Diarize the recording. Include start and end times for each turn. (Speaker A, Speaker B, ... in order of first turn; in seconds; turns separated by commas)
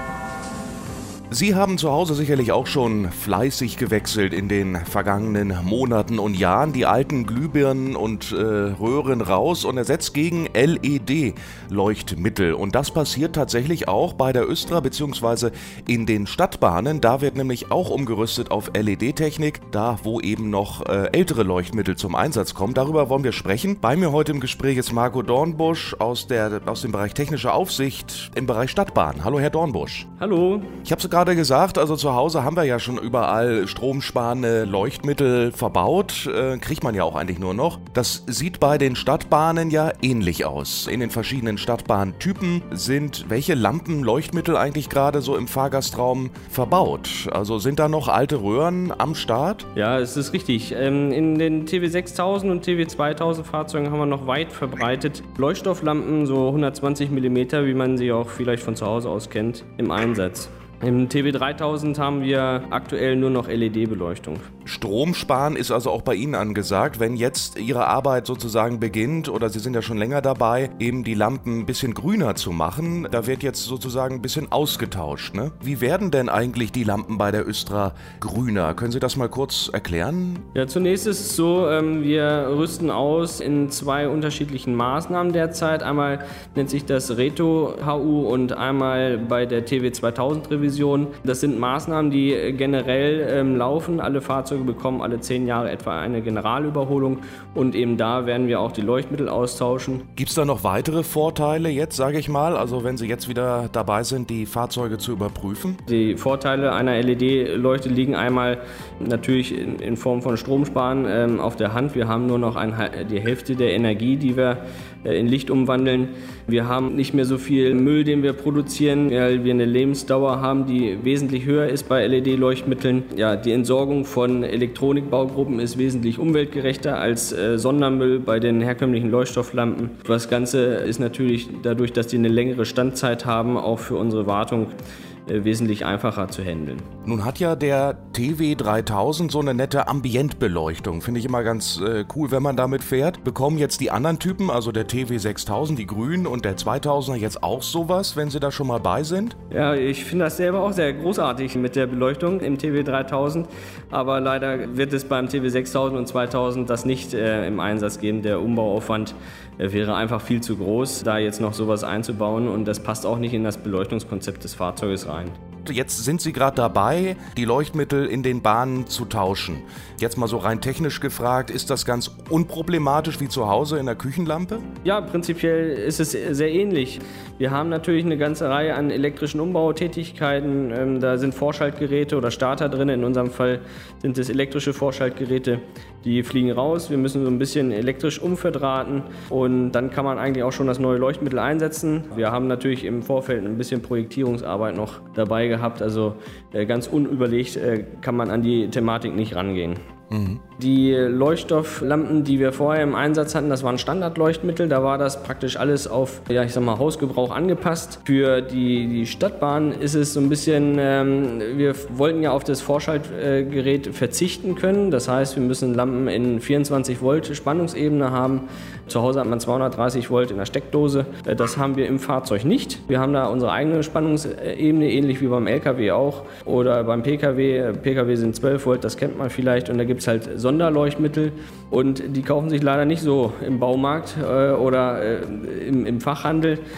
Speaker A: 1.3-30.1, Speaker B: 30.2-30.7, Speaker A: 30.8-49.6, Speaker B: 49.7-64.5, Speaker A: 64.7-80.5, Speaker B: 80.5-100.0, Speaker A: 100.2-105.8, Speaker B: 105.9-134.7, Speaker B: 135.3-136.9, Speaker A: 137.1-149.3, Speaker B: 149.5-165.4, Speaker A: 165.6-174.7, Speaker B: 174.8-199.8, Speaker A: 200.1-200.4, Speaker B: 200.6-236.6